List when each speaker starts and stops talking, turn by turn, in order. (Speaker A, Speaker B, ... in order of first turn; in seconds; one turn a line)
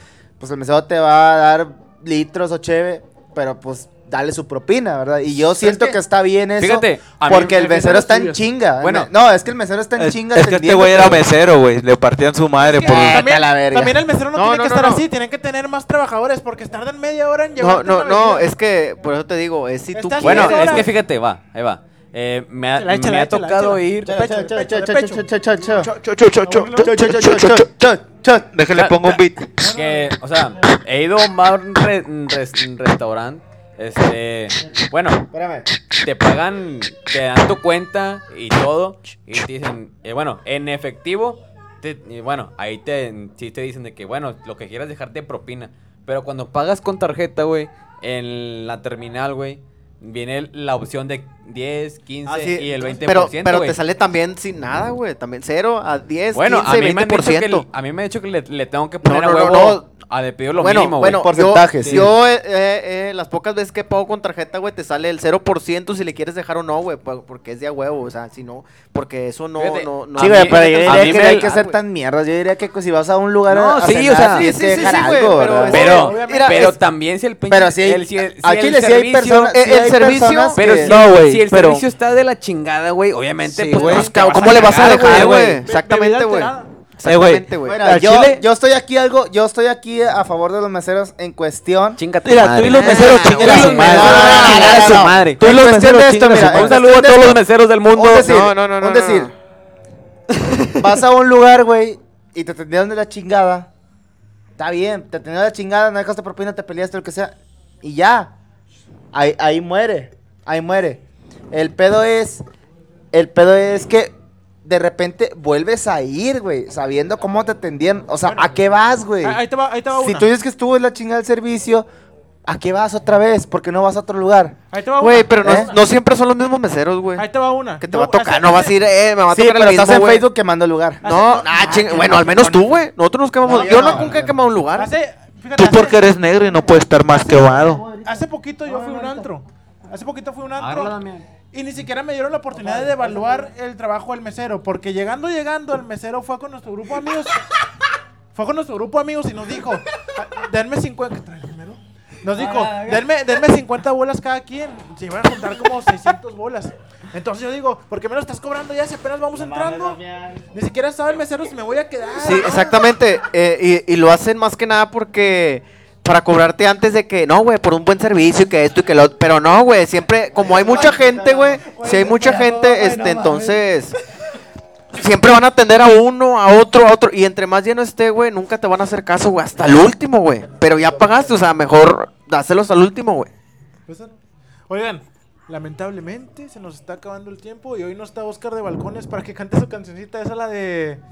Speaker A: 0.4-11.3
Speaker B: 6.6-9.1
Speaker C: 10.0-13.2
Speaker A: 12.7-14.0
Speaker D: 12.8-13.2
Speaker E: 13.0-18.5
Speaker D: 14.3-15.1
Speaker D: 17.6-20.9
Speaker E: 19.9-20.9
Speaker B: 20.2-24.1
Speaker E: 22.8-25.3
Speaker A: 24.1-25.9
Speaker C: 25.8-27.7
Speaker E: 26.4-26.9
Speaker A: 26.8-28.5
Speaker C: 28.5-29.5
Speaker B: 28.8-35.2
Speaker E: 29.6-30.1
Speaker A: 35.3-35.7
Speaker B: 36.0-53.8
Speaker D: 52.2-57.6
Speaker B: 56.3-61.3
Speaker D: 59.0-59.9
Speaker D: 60.6-71.7
Speaker A: 61.0-62.1
Speaker B: 61.9-62.1
Speaker B: 69.6-71.5
Speaker A: 70.2-76.1
Speaker B: 73.5-74.5
Speaker D: 74.2-76.8
Speaker E: 75.4-76.8
Speaker B: 75.6-79.5
Speaker A: 77.5-80.9
Speaker D: 79.5-81.8
Speaker B: 80.5-85.6
Speaker D: 83.6-87.8
Speaker C: 83.7-85.6
Speaker E: 85.0-86.7
Speaker C: 87.0-88.4
Speaker A: 87.7-92.0
Speaker B: 92.0-95.5
Speaker C: 92.2-96.8
Speaker D: 92.7-95.1
Speaker A: 93.4-99.3
Speaker B: 96.3-98.3
Speaker D: 98.2-99.3
Speaker B: 100.4-100.7
Speaker A: 100.8-103.7
Speaker A: 104.6-108.3
Speaker A: 109.1-112.4
Speaker A: 113.1-114.1
Speaker A: 114.6-121.9
Speaker E: 118.2-118.6
Speaker E: 119.2-120.3
Speaker A: 122.5-124.6
Speaker E: 124.7-125.8
Speaker D: 125.0-127.3
Speaker A: 125.4-125.7
Speaker E: 127.2-128.8
Speaker D: 127.8-130.2
Speaker A: 129.3-131.0
Speaker E: 131.0-132.6
Speaker D: 131.0-134.9
Speaker A: 133.4-134.3
Speaker E: 134.8-136.1
Speaker C: 135.6-137.8
Speaker A: 137.0-139.3
Speaker E: 138.0-140.9
Speaker B: 140.6-141.3
Speaker E: 141.5-147.4
Speaker A: 142.8-143.2
Speaker E: 148.3-160.0
Speaker A: 152.4-153.0
Speaker A: 159.4-160.4
Speaker E: 160.5-162.8
Speaker D: 162.2-173.9
Speaker E: 171.9-172.3
Speaker A: 172.0-173.4
Speaker D: 174.9-183.3
Speaker E: 183.9-184.2
Speaker E: 184.7-191.0